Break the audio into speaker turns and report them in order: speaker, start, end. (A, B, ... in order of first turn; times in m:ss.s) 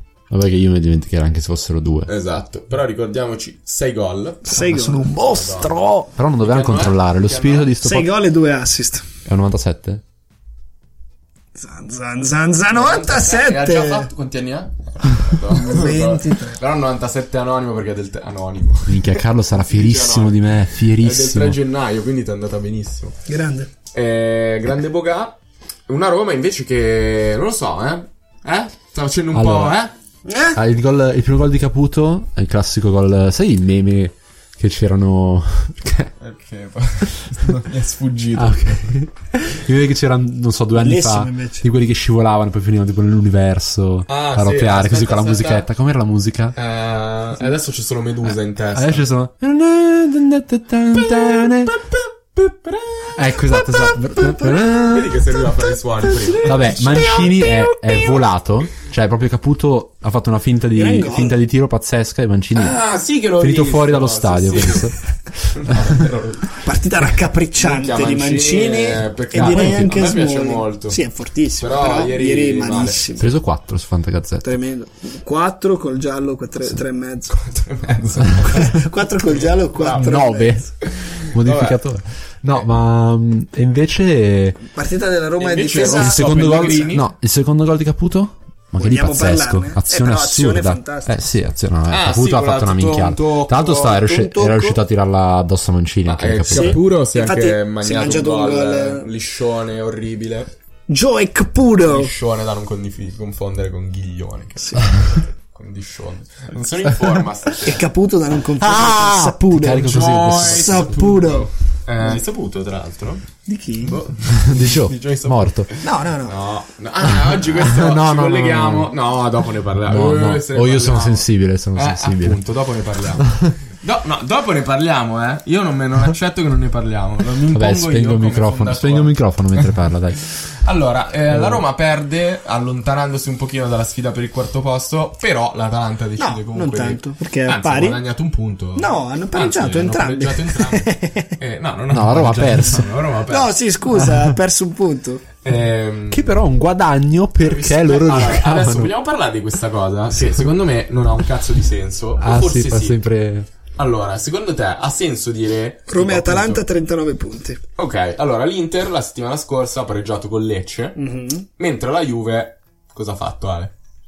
0:00.3-0:02.1 A
0:02.1-0:05.8 B
0:04.4-0:05.1 C
0:04.5-0:08.1 A
0:06.4-0:07.7 B
0:07.8-0:09.0 C
0:09.2-0:10.0 A
0:11.6-0:14.1 C
0:12.7-0:23.2 B
0:15.5-0:16.6 C
0:18.8-0:21.6 A
0:23.2-0:23.7 C
0:23.9-0:29.9 B
0:29.3-0:29.8 A
0:30.2-0:30.6 C
0:30.6-0:36.1 A
0:36.2-0:38.8 B
0:38.3-0:46.6 A
0:40.8-0:41.7 C
0:44.1-0:45.7 B
0:46.6-0:49.1 B
0:48.2-0:51.8 A
0:51.1-0:51.7 B
0:52.4-0:53.3 B
0:53.1-0:55.2 A
0:54.8-0:57.1 B
0:56.1-0:58.2 C
0:56.4-1:02.8 A
1:00.7-1:01.4 C
1:02.5-1:05.0 B
1:03.4-1:05.0 A
1:05.5-1:06.6 B
1:05.7-1:06.0 A
1:06.6-1:13.4 C
1:07.6-1:11.0 B
1:09.4-1:10.1 A
1:11.6-1:13.0 B
1:13.2-1:14.5 A
1:14.4-1:17.4 C
1:17.3-1:20.2 B
1:18.4-1:20.7 C
1:20.0-1:20.7 A
1:20.8-1:21.8 B
1:21.3-1:24.6 A
1:24.7-1:27.0 C
1:25.4-1:27.1 B
1:26.0-1:36.8 A
1:28.8-1:31.2 C
1:31.9-1:34.0 B
1:33.7-1:34.8 C
1:36.0-1:40.5 B
1:36.5-1:39.1 C
1:40.9-1:42.1 C
1:41.8-1:47.9 B
1:44.6-1:44.9 C
1:47.6-1:51.5 C
1:48.6-1:51.0 A
1:49.8-1:53.2 B
1:53.4-1:54.0 C
1:53.8-2:09.6 B
1:54.4-1:55.7 A
1:55.8-1:56.4 C
1:57.1-1:58.9 A
1:59.9-2:02.4 A
2:03.2-2:03.6 A
2:07.5-2:10.2 A
2:10.6-2:23.6 B
2:11.3-2:11.6 A
2:16.2-2:18.0 C
2:18.8-2:21.4 C
2:21.9-2:22.9 A
2:23.3-2:25.2 C
2:24.0-2:24.3 A
2:25.4-2:26.3 B
2:26.1-2:28.9 A
2:27.4-2:33.0 B
2:32.2-2:33.5 A
2:33.8-2:36.6 B
2:35.9-2:37.6 C
2:37.8-2:41.0 B
2:41.0-2:41.5 C
2:41.6-2:43.7 B